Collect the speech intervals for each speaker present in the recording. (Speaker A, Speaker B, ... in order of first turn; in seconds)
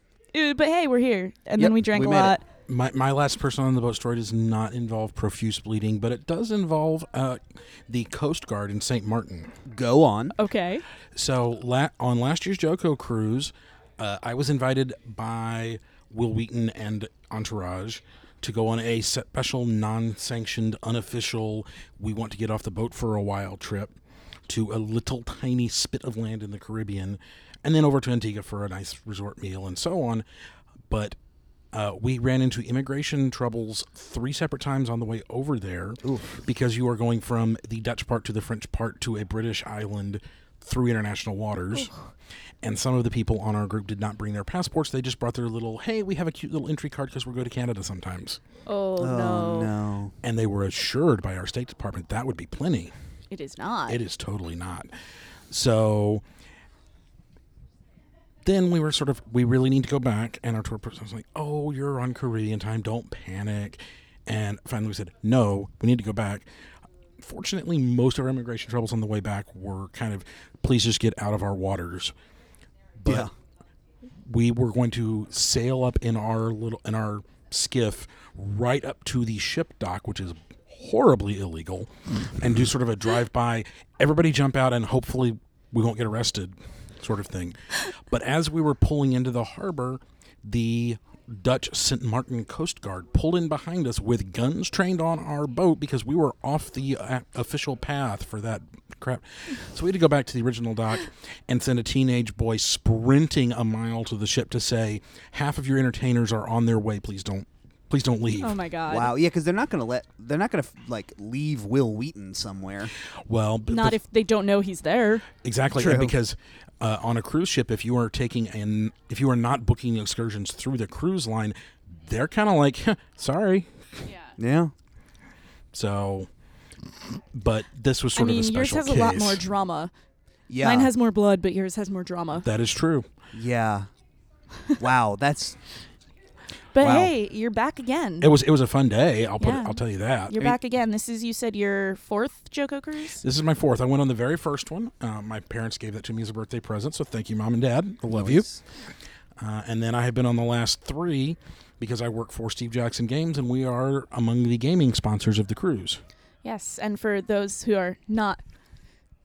Speaker A: 0.3-2.4, 10.3-10.8, 41.7-42.0, 48.7-49.7, 53.3-54.0, 108.4-109.1, 113.7-115.3, 124.0-124.4, 128.2-129.9, 130.6-132.5, 136.7-138.3, 139.4-143.2, 156.4-158.4
Speaker B: 1.6-2.4, 9.7-10.3, 36.0-36.4, 49.0-50.1, 73.1-73.3, 108.9-112.9, 115.8-116.1, 124.4-124.7, 130.5-130.9, 133.3-133.9, 134.8-135.6, 148.1-148.6
Speaker C: 2.7-9.6, 11.2-24.0, 24.5-30.2, 30.9-31.2, 31.7-41.9, 42.6-48.4, 50.2-52.9, 53.9-54.9, 55.5-56.2, 58.5-66.5, 67.2-72.2, 73.0-73.3, 74.2-108.6, 113.1-114.0, 115.4-124.1, 125.7-126.3, 127.3-129.4, 132.4-133.1, 136.8-137.1, 138.2-140.6, 143.2-148.5, 149.4-156.0